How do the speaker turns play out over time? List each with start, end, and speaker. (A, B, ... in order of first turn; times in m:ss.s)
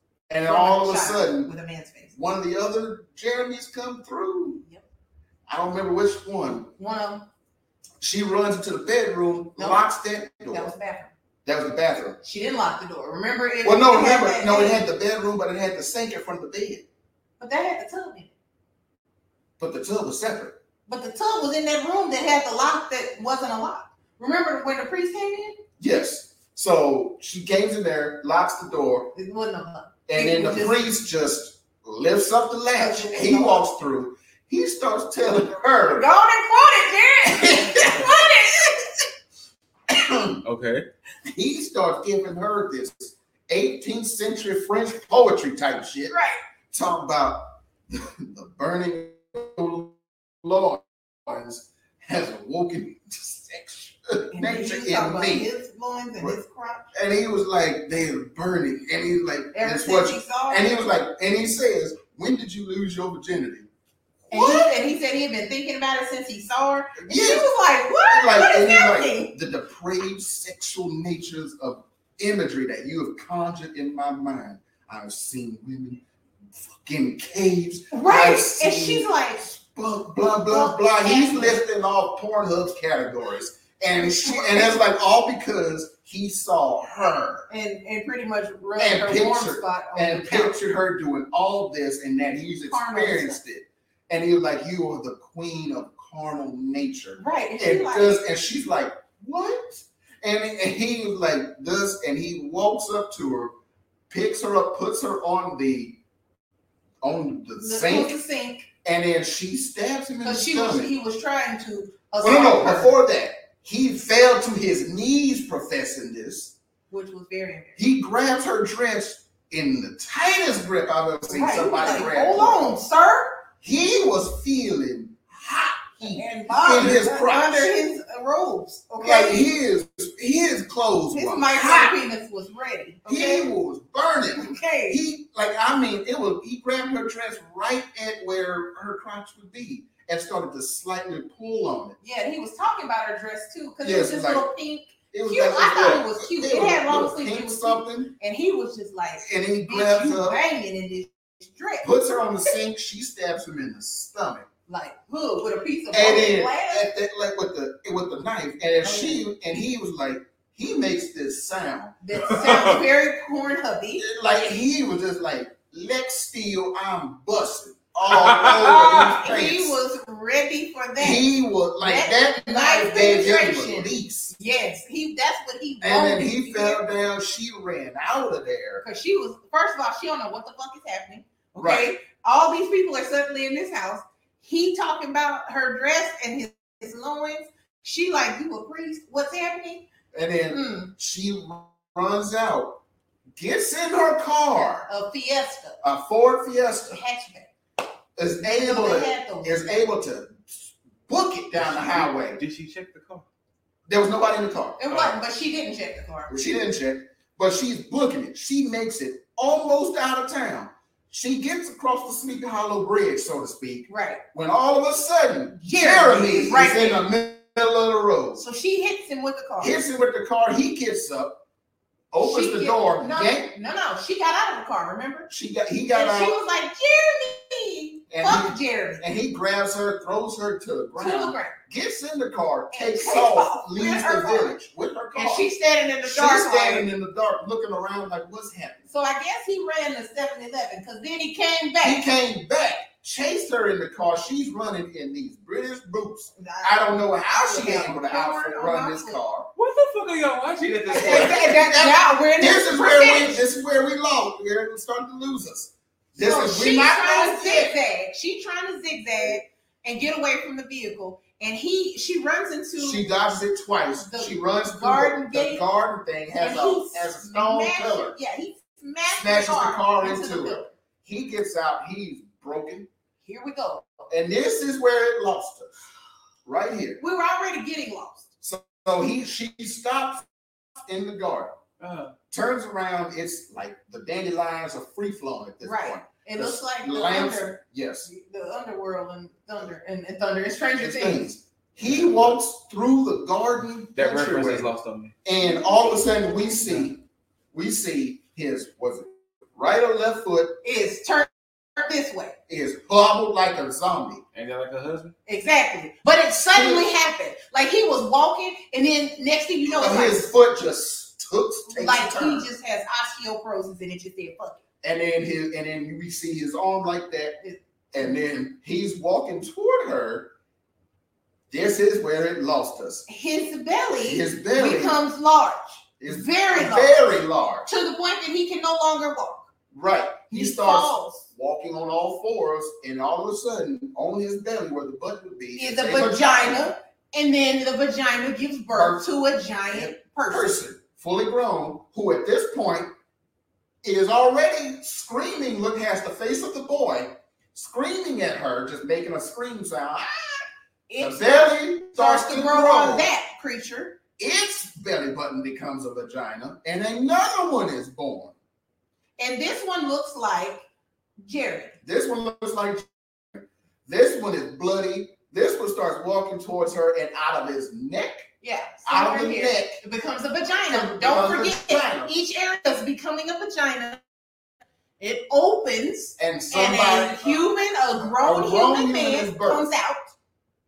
0:00.3-0:01.5 A
0:00.4-0:02.1 B
0:02.1-0:04.6 A
0:05.5-0:06.7 A
0:06.8-0:07.3 B
0:08.0-0:10.7 A
0:09.6-0:09.8 B
0:10.5-0:11.1 B
0:11.4-0:12.2 A
0:12.2-0:14.8 B
0:13.6-0:16.8 A
0:17.4-0:18.3 B
0:19.6-0:20.6 A
0:20.9-0:25.6 B
0:25.8-0:29.1 A
0:29.2-0:30.9 B
0:30.1-0:36.1 A
0:32.8-0:33.7 B
0:35.9-0:39.1 B
0:37.3-0:38.1 A
0:39.9-0:40.4 A
0:40.4-0:40.9 C
0:41.3-0:46.2 A
0:46.1-0:46.4 B
0:46.7-0:55.5 A
0:54.3-0:56.9 B
0:56.9-1:03.7 A
0:59.5-1:00.7 B
1:04.2-1:04.7 A
1:04.3-1:09.3 B
1:07.0-1:07.5 A
1:08.1-1:16.0 A
1:16.6-1:27.5 A
1:17.9-1:19.4 B
1:20.5-1:21.6 B
1:24.0-1:24.8 B
1:27.5-1:30.6 B
1:28.8-1:43.6 A
1:32.7-1:33.4 B
1:37.2-1:38.2 B
1:44.1-1:46.0 A
1:47.0-1:48.2 A
1:47.6-1:48.7 B
1:48.8-1:50.9 A
1:50.2-1:52.9 B
1:52.2-1:56.5 A
1:56.9-1:57.8 B
1:57.8-2:02.8 A
2:01.3-2:03.4 B
2:03.6-2:07.8 A
2:06.0-2:09.4 B
2:09.0-2:12.0 A
2:11.1-2:13.5 B
2:13.1-2:22.0 A
2:14.4-2:15.0 B
2:22.0-2:31.9 B
2:23.8-2:24.4 A
2:25.1-2:28.1 A
2:29.2-2:30.4 A
2:31.8-2:34.5 A
2:34.7-2:36.9 B
2:35.9-2:42.5 A
2:38.8-2:39.2 B
2:42.0-2:44.0 B
2:42.3-2:42.8 C
2:44.0-2:49.8 A
2:48.1-2:49.0 C
2:48.9-2:51.2 B
2:51.0-2:54.4 A
2:51.8-2:56.8 B
2:55.8-2:58.8 A
2:58.8-3:09.8 B
3:01.6-3:01.9 A
3:10.1-3:12.8 A
3:10.5-3:10.9 B
3:13.4-3:14.9 A
3:14.9-3:15.8 B
3:15.8-3:17.0 A
3:16.9-3:17.5 B
3:18.2-3:22.4 A
3:18.4-3:19.7 B
3:21.6-3:23.3 C
3:23.9-3:24.8 A
3:24.8-3:26.4 B
3:24.9-3:25.2 C
3:26.3-3:38.4 A
3:33.9-3:34.2 B
3:35.6-3:37.0 B
3:38.4-3:39.8 B
3:39.6-3:41.4 A
3:42.1-3:43.5 A
3:42.2-3:45.3 B
3:45.3-3:46.4 A
3:45.9-3:49.0 B
3:48.1-3:55.5 A
3:51.0-3:51.6 B
3:52.7-3:54.6 B
3:55.2-3:56.9 B
3:56.0-3:58.9 A
3:58.9-4:02.1 B
4:01.8-4:09.5 A
4:06.4-4:09.2 B
4:09.6-4:11.5 C
4:10.9-4:13.4 B
4:10.9-4:17.8 A
4:16.2-4:23.0 B
4:22.8-4:28.2 A
4:24.0-4:25.6 B
4:26.4-4:30.7 B
4:29.1-4:32.9 A
4:33.2-4:33.9 B
4:34.1-4:35.7 A
4:36.4-4:37.0 A
4:37.0-4:38.3 B
4:38.4-4:41.6 A
4:41.8-4:42.1 C
4:42.3-4:48.1 A
4:45.6-4:51.3 B
4:50.8-4:54.7 A
4:51.8-4:52.4 C
4:54.0-4:55.1 C
4:55.2-5:00.6 A
5:00.6-5:02.4 B
5:02.5-5:04.2 A
5:04.3-5:05.2 C
5:05.3-5:10.3 B
5:06.5-5:06.9 A
5:09.6-5:12.5 A
5:11.7-5:14.6 B
5:14.8-5:17.4 A
5:17.9-5:20.3 A
5:21.5-5:23.1 A
5:23.1-5:27.0 B
5:24.0-5:25.0 A
5:26.0-5:27.7 A
5:27.7-5:29.5 B
5:29.7-5:36.7 A
5:30.3-5:31.3 B
5:35.6-5:40.6 B
5:38.7-5:39.0 A
5:39.7-5:42.9 A
5:43.8-5:50.4 A
5:50.9-5:54.0 B
5:51.0-5:53.1 A
5:54.2-5:58.3 A
5:59.2-6:00.6 B
6:01.2-6:01.8 B
6:01.8-6:08.3 A
6:08.4-6:14.0 B
6:08.9-6:09.8 A
6:10.7-6:12.1 A
6:15.0-6:20.1 B
6:16.2-6:17.4 A
6:18.0-6:19.7 A